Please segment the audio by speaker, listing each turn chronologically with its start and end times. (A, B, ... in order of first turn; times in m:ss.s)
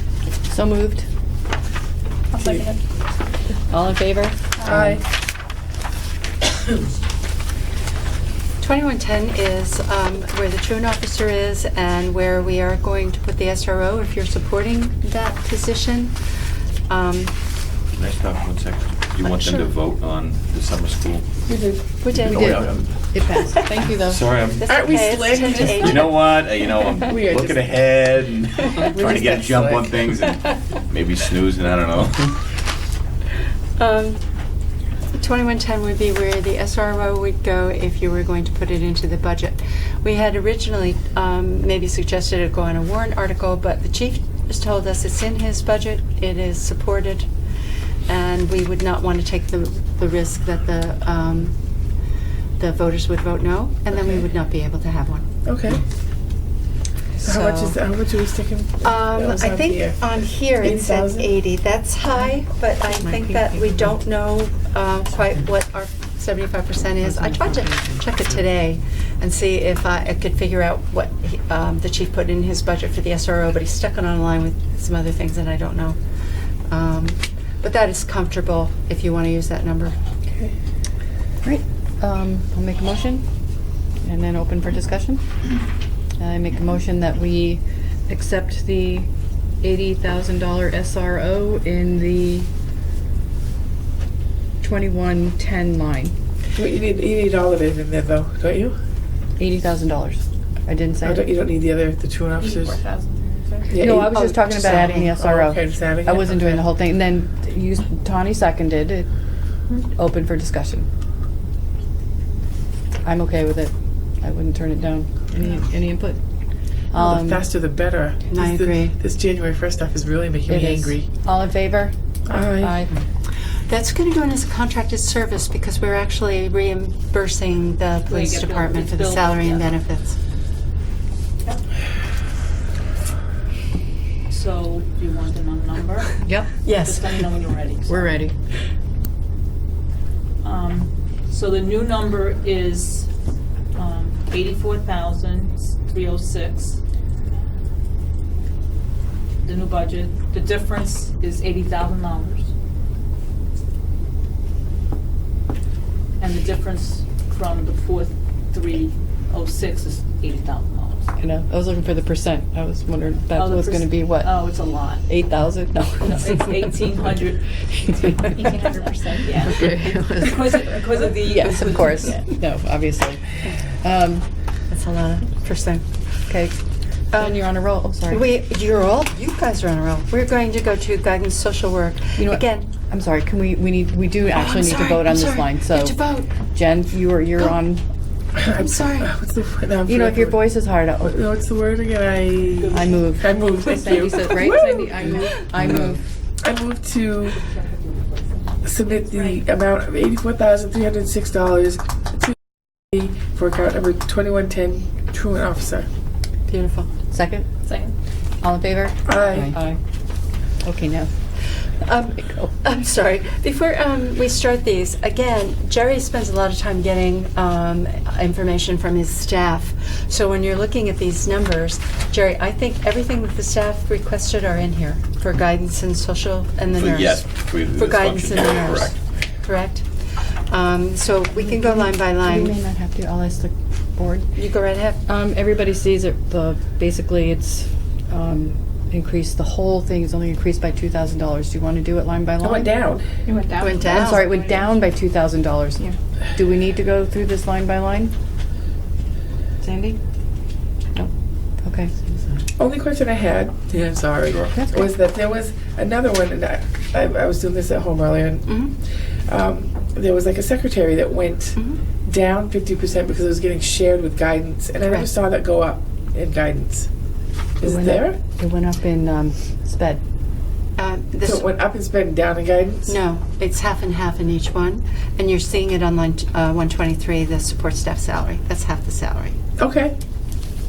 0:00.5-0:01.1 A
0:02.3-0:02.8 B
0:03.6-0:05.0 A
0:04.7-0:05.0 C
0:08.6-0:17.4 D
0:17.9-0:21.4 E
0:19.2-0:19.7 D
0:21.5-0:21.8 C
0:22.0-0:22.6 D
0:22.1-0:24.7 E
0:22.2-0:24.2 A
0:24.6-0:26.3 D
0:24.7-0:26.0 C
0:25.4-0:32.5 E
0:27.0-0:27.8 C
0:28.8-0:30.1 C
0:33.8-0:34.2 D
0:35.1-0:47.3 D
0:48.1-0:51.6 D
0:52.6-0:55.3 D
0:55.4-0:55.8 C
0:57.1-0:57.8 D
0:57.2-1:01.3 C
0:58.8-1:16.0 D
1:03.2-1:03.9 A
1:07.1-1:07.8 A
1:16.7-1:20.0 D
1:21.4-1:23.3 A
1:24.0-1:25.3 A
1:26.2-1:29.1 A
1:29.6-1:32.5 A
1:34.6-1:36.2 A
1:36.6-1:38.8 C
1:39.4-1:41.3 A
1:41.0-1:42.8 C
1:42.4-1:43.7 B
1:43.7-1:46.6 C
1:43.8-1:49.1 A
1:49.8-1:50.9 A
1:53.0-1:56.2 A
1:56.9-1:57.4 A
1:56.9-2:01.1 C
1:58.3-1:59.0 D
2:00.5-2:03.0 A
2:02.3-2:02.8 C
2:03.3-2:10.2 D
2:08.1-2:09.8 B
2:14.3-2:16.3 B
2:16.2-2:16.6 A
2:16.6-2:17.3 D
2:16.8-2:18.2 B
2:17.9-2:18.3 A
2:20.4-2:23.1 B
2:23.7-2:26.8 B
2:29.4-2:32.5 B
2:36.2-2:41.2 B
2:41.2-2:46.5 A
2:43.3-2:45.1 B
2:46.0-2:52.3 B
2:48.1-2:48.4 A
2:49.4-2:54.3 A
2:54.7-3:02.7 D
2:57.2-2:58.2 A
3:02.2-3:07.8 A
3:04.3-3:06.3 D
3:08.4-3:17.4 C
3:08.5-3:09.1 D
3:09.9-3:11.2 A
3:12.6-3:14.6 B
3:12.7-3:16.0 A
3:17.3-3:19.4 B
3:18.6-3:22.3 C
3:22.9-3:25.9 C
3:26.5-3:26.9 D
3:27.1-3:27.5 A
3:27.6-3:27.9 B
3:28.4-3:29.8 A
3:29.1-3:29.6 C
3:30.6-3:31.1 A
3:31.4-3:52.6 D
3:46.7-3:49.0 E
3:51.4-3:54.4 A
3:54.4-3:55.0 D
3:55.1-4:02.7 A
4:02.4-4:03.2 C
4:03.3-4:04.3 B
4:03.6-4:04.3 D
4:03.9-4:08.1 A
4:09.6-4:10.0 A
4:11.6-4:12.0 A
4:12.6-4:26.9 C
4:14.3-4:14.5 E
4:14.5-4:14.9 A
4:18.5-4:18.7 D
4:27.6-4:28.2 C
4:27.6-4:30.0 A
4:30.8-4:31.5 D
4:31.2-4:33.0 C
4:32.9-4:39.4 D
4:39.6-4:40.0 C